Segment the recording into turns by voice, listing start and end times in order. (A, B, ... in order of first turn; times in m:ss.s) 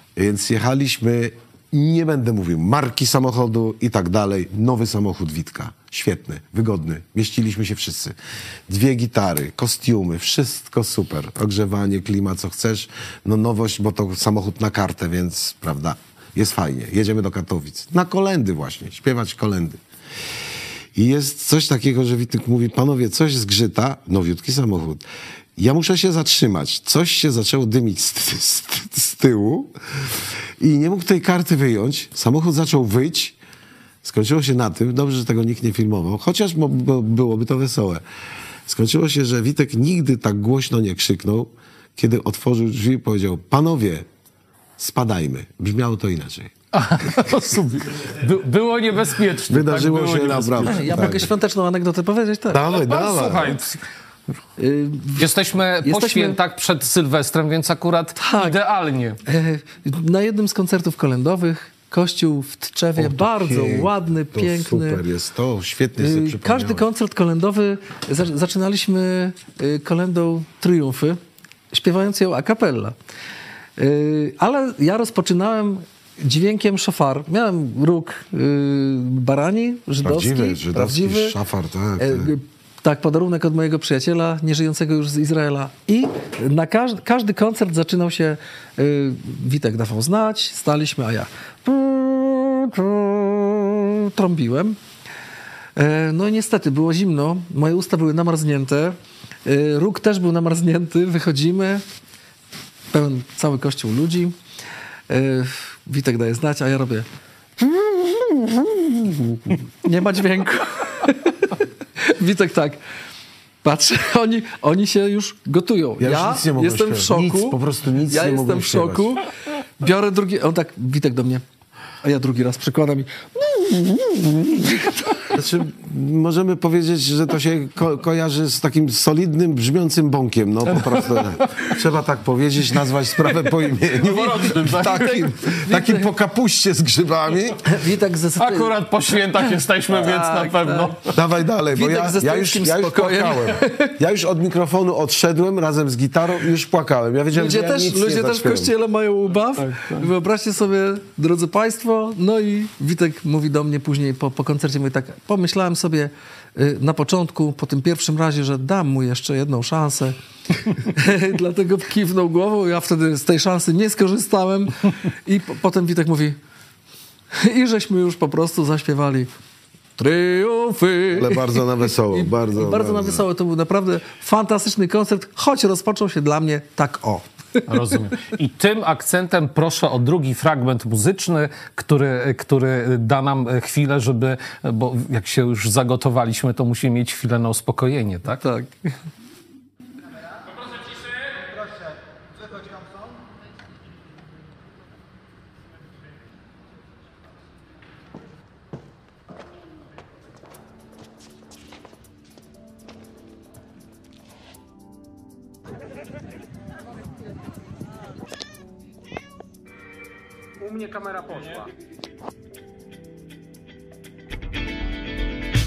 0:00.2-0:08.2 A
0:08.7-0:19.8 A
0:21.0-0:25.0 A
0:25.6-0:33.4 A
0:34.0-0:38.0 A
0:38.7-0:44.1 A
0:44.8-0:46.5 A
0:46.7-0:51.0 B
0:49.5-0:51.3 A
0:50.7-0:52.6 C
0:52.5-0:53.6 A
0:52.7-0:53.8 B
0:54.6-0:55.3 C
0:55.2-0:59.2 B
0:55.8-0:56.4 C
0:58.2-0:58.6 C
0:59.2-1:05.0 C
1:03.0-1:06.9 A
1:06.0-1:11.2 C
1:11.7-1:13.0 C
1:13.8-1:21.4 C
1:20.0-1:22.3 A
1:22.0-1:34.8 C
1:35.8-1:41.8 C
1:42.9-1:44.4 C
1:45.1-1:47.1 C
1:47.6-1:52.8 C
1:53.6-1:59.2 C
1:56.0-1:59.2 A
1:59.8-2:01.4 C
2:02.0-2:05.3 C
2:05.3-2:17.8 A
2:11.4-2:11.7 B
2:14.0-2:15.2 B
2:14.8-2:16.1 C
2:17.6-2:18.8 C
2:18.4-2:21.2 B
2:19.9-2:21.0 C
2:21.1-2:28.7 A
2:21.7-2:24.0 C
2:27.3-2:46.4 C
2:29.7-2:30.0 B
2:47.3-2:49.3 C
2:50.0-2:57.7 C
2:51.1-2:53.3 A
2:57.7-3:08.4 B
3:08.3-3:08.9 C